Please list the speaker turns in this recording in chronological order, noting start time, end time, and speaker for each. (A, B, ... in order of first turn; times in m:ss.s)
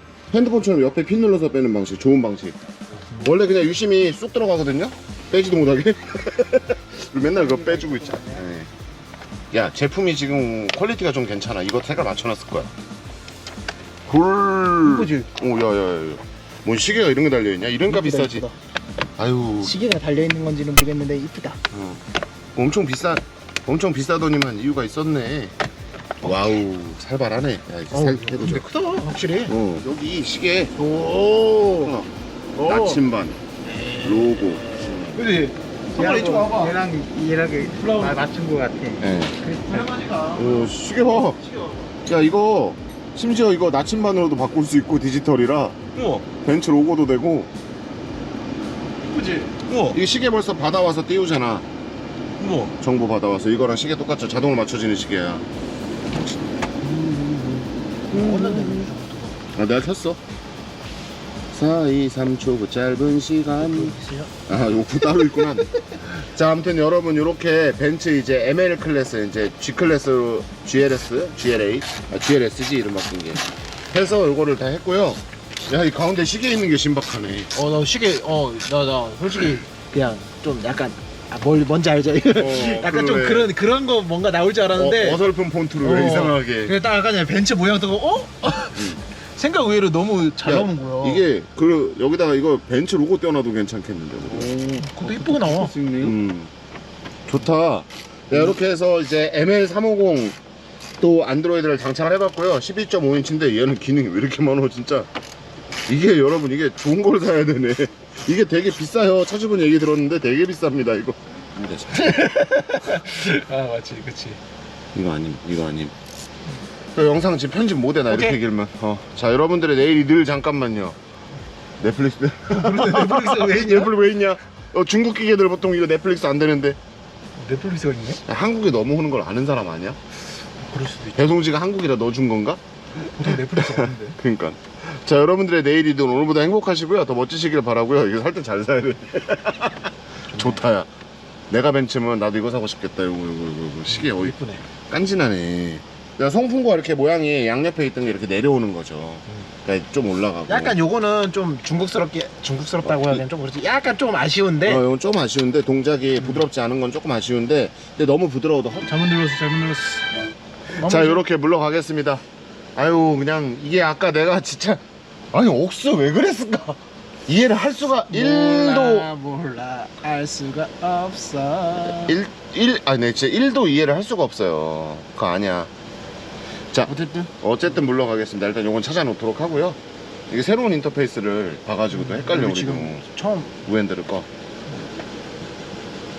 0:00.3-0:08.7 A
0:07.5-0:08.3 B
0:09.5-0:12.7 A
0:14.1-0:18.5 A
0:14.8-0:15.3 B
0:17.9-0:18.6 B
0:19.2-0:19.8 A
0:19.6-0:21.6 B
0:21.7-0:22.0 A
0:22.6-0:25.6 A
0:26.2-0:28.8 A
0:27.9-0:29.6 B
0:29.5-0:30.8 A
0:30.8-0:32.0 B
0:31.7-0:33.4 A
0:32.6-0:33.0 B
0:33.6-0:36.8 B
0:34.0-0:35.2 A
0:35.9-0:40.1 C
0:37.8-0:38.2 B
0:39.0-0:39.4 A
0:39.4-0:40.7 B
0:40.3-0:41.4 A
0:41.3-0:41.9 B
0:42.1-0:47.5 A
0:45.9-0:46.2 B
0:49.0-0:50.0 B
0:49.8-0:51.6 A
0:52.4-0:52.7 B
0:52.8-0:55.4 A
0:56.2-0:58.9 A
0:58.1-0:59.5 B
0:59.5-1:00.2 A
1:01.5-1:17.6 A
1:03.6-1:04.3 B
1:17.5-1:25.2 B
1:22.4-1:23.5 A
1:24.7-1:26.8 A
1:25.8-1:31.3 B
1:28.7-1:29.0 A
1:30.4-1:34.5 A
1:34.3-1:36.2 C
1:34.7-1:35.8 B
1:36.0-1:36.5 A
1:37.3-1:40.4 A
1:38.3-1:38.6 B
1:41.0-1:45.1 A
1:45.9-1:52.3 A
1:51.9-1:54.4 B
1:54.9-1:55.9 A
1:57.0-2:01.0 A
1:58.1-1:58.4 B
2:01.8-2:06.8 A
2:02.5-2:03.9 B
2:07.4-2:08.2 B
2:08.2-2:10.0 A
2:10.6-2:11.3 B
2:11.1-2:12.6 A
2:13.2-2:14.2 B
2:13.2-2:20.9 A
2:20.3-2:20.6 B
2:21.5-2:30.8 A
2:23.9-2:24.6 B
2:30.5-2:34.8 B
2:32.8-2:33.2 A
2:34.6-2:38.9 A
2:36.2-2:36.5 B
2:38.9-2:40.1 B
2:40.8-2:41.2 B
2:40.8-2:42.2 A
2:42.8-2:49.1 A
2:48.1-2:52.2 B
2:51.9-2:55.7 A
2:56.7-3:03.1 A
2:56.9-2:57.3 B
3:01.9-3:03.5 B
3:03.6-3:04.3 A